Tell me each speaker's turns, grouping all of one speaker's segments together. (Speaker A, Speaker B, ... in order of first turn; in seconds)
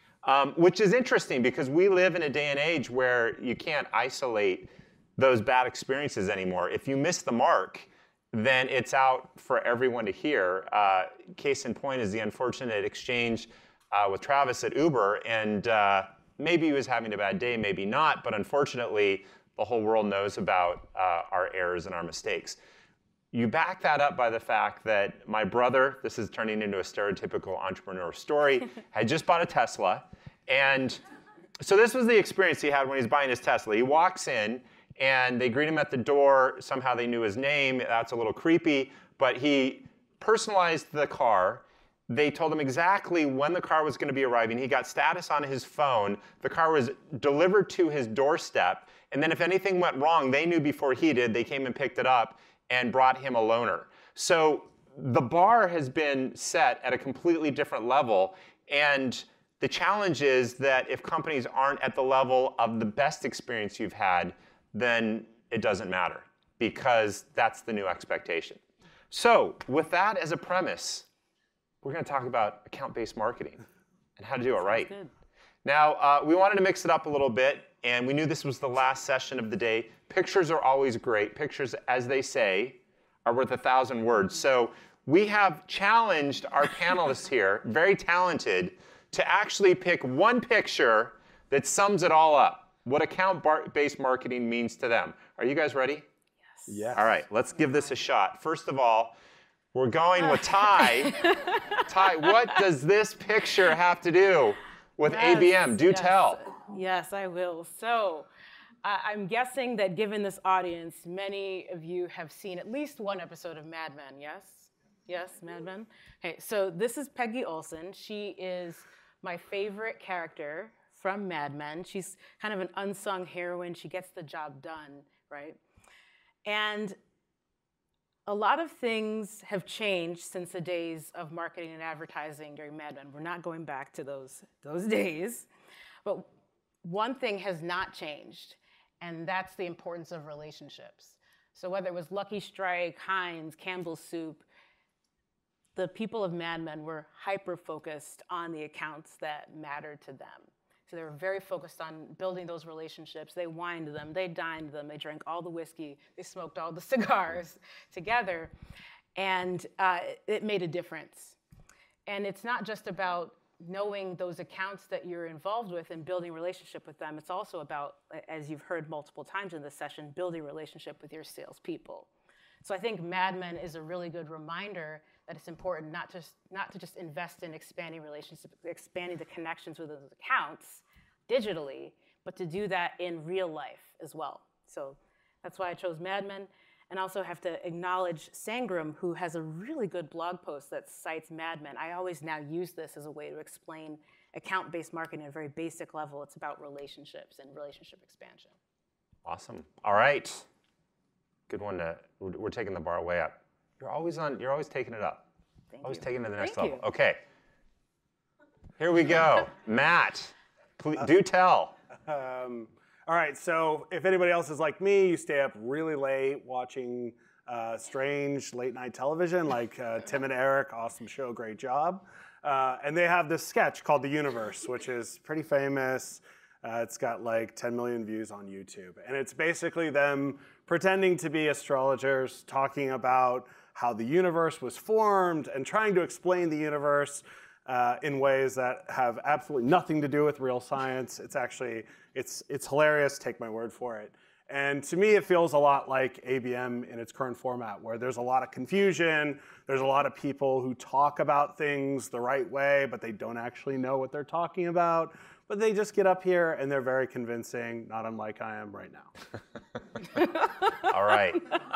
Speaker A: 0.2-22.6, 23.3-31.0, 31.6-68.6, 69.1-71.1, 71.8-73.7, 74.2-74.9, 75.7-96.1, 96.9-99.2, 99.7-101.3, 101.9-106.4, 199.2-200.5, 201.5-205.2, 205.8-207.2, 208.8-211.8, 260.9-261.4
Speaker B: 74.6-75.1, 100.2-102.6, 105.0-108.3, 108.8-125.6, 126.5-127.0, 128.3-135.5, 136.8-144.4, 145.8-158.5, 159.2-161.4, 162.1-172.1, 172.6-198.6, 205.7-206.8
Speaker C: 96.7-97.2, 212.1-259.1